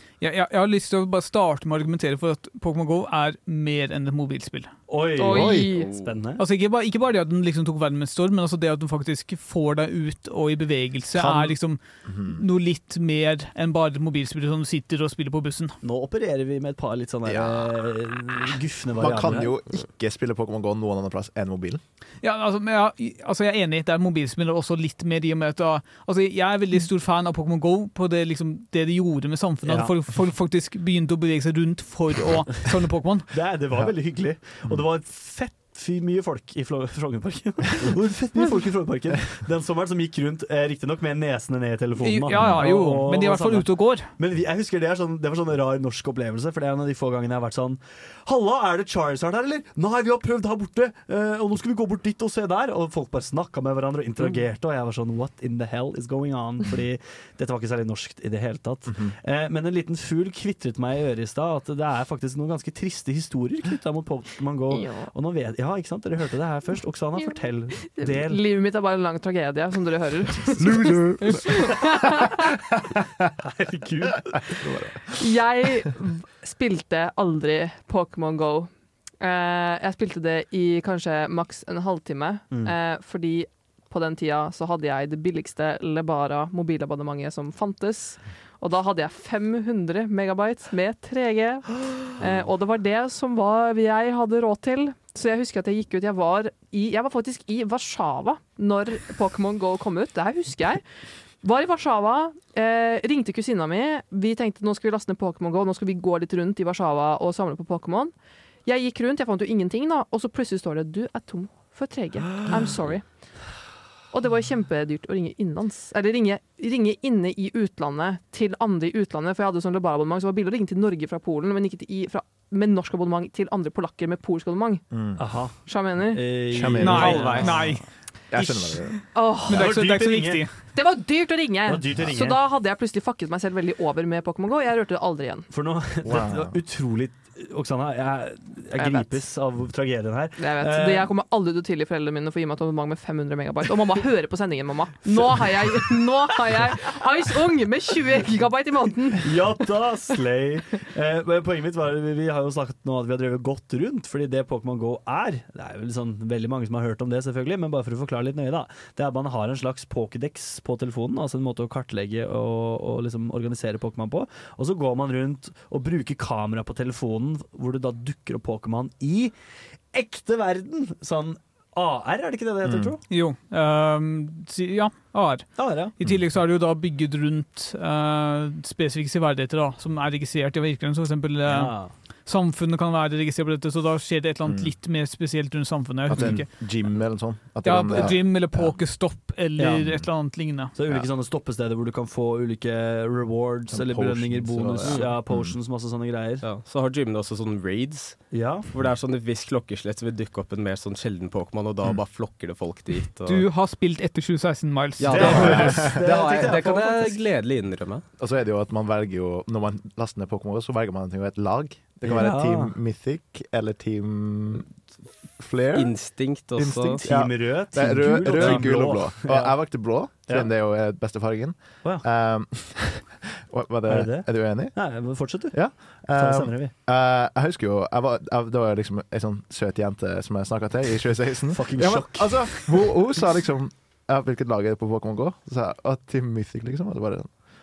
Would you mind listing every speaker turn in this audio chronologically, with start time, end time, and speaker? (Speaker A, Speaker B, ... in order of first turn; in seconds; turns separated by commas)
Speaker A: 0.2-4.7, Speaker B: 4.9-6.4, Speaker C: 5.2-5.9, Speaker D: 5.3-5.7, Speaker E: 5.7-6.0, Speaker A: 6.4-15.8, Speaker D: 11.1-11.6, Speaker D: 12.1-12.4, Speaker B: 15.8-19.5, Speaker D: 17.2-17.7, Speaker D: 18.9-21.8, Speaker A: 22.2-33.3, Speaker B: 29.6-29.9, Speaker B: 33.3-68.4, Speaker A: 42.0-44.1, Speaker D: 42.3-42.6, Speaker C: 64.7-65.1, Speaker C: 67.9-72.5, Speaker D: 70.6-71.9, Speaker B: 73.4-74.7, Speaker D: 74.5-74.9, Speaker C: 75.2-100.8, Speaker C: 101.4-108.1, Speaker C: 108.7-113.0, Speaker C: 114.1-124.8, Speaker D: 124.9-125.2, Speaker B: 125.2-127.8, Speaker C: 125.7-126.2, Speaker D: 126.5-127.7, Speaker A: 126.8-127.8, Speaker D: 128.3-129.0, Speaker C: 129.1-129.7, Speaker A: 129.5-130.5, Speaker B: 129.5-130.4, Speaker C: 130.7-135.5, Speaker B: 131.7-132.4, Speaker B: 135.5-141.1, Speaker D: 136.0-136.6, Speaker C: 138.7-139.1, Speaker C: 140.4-149.3, Speaker B: 149.2-169.3, Speaker B: 169.9-173.0, Speaker D: 172.6-172.9, Speaker A: 173.1-186.5, Speaker B: 175.6-175.9, Speaker B: 181.5-181.9, Speaker D: 184.5-184.7, Speaker D: 186.1-188.8, Speaker A: 187.6-190.7, Speaker B: 189.6-189.9, Speaker B: 190.8-196.4, Speaker D: 193.7-195.5, Speaker E: 194.8-195.2, Speaker E: 196.4-198.2, Speaker B: 198.3-198.7, Speaker E: 198.7-203.4, Speaker A: 203.2-205.6, Speaker E: 205.0-208.0, Speaker B: 205.1-207.2, Speaker D: 205.2-206.4, Speaker D: 208.2-214.7, Speaker B: 212.0-212.7, Speaker D: 215.4-215.9, Speaker E: 215.7-217.0, Speaker D: 216.5-224.8, Speaker B: 217.0-219.6, Speaker B: 223.9-225.6, Speaker D: 225.5-237.3, Speaker B: 226.1-226.7, Speaker B: 231.5-232.9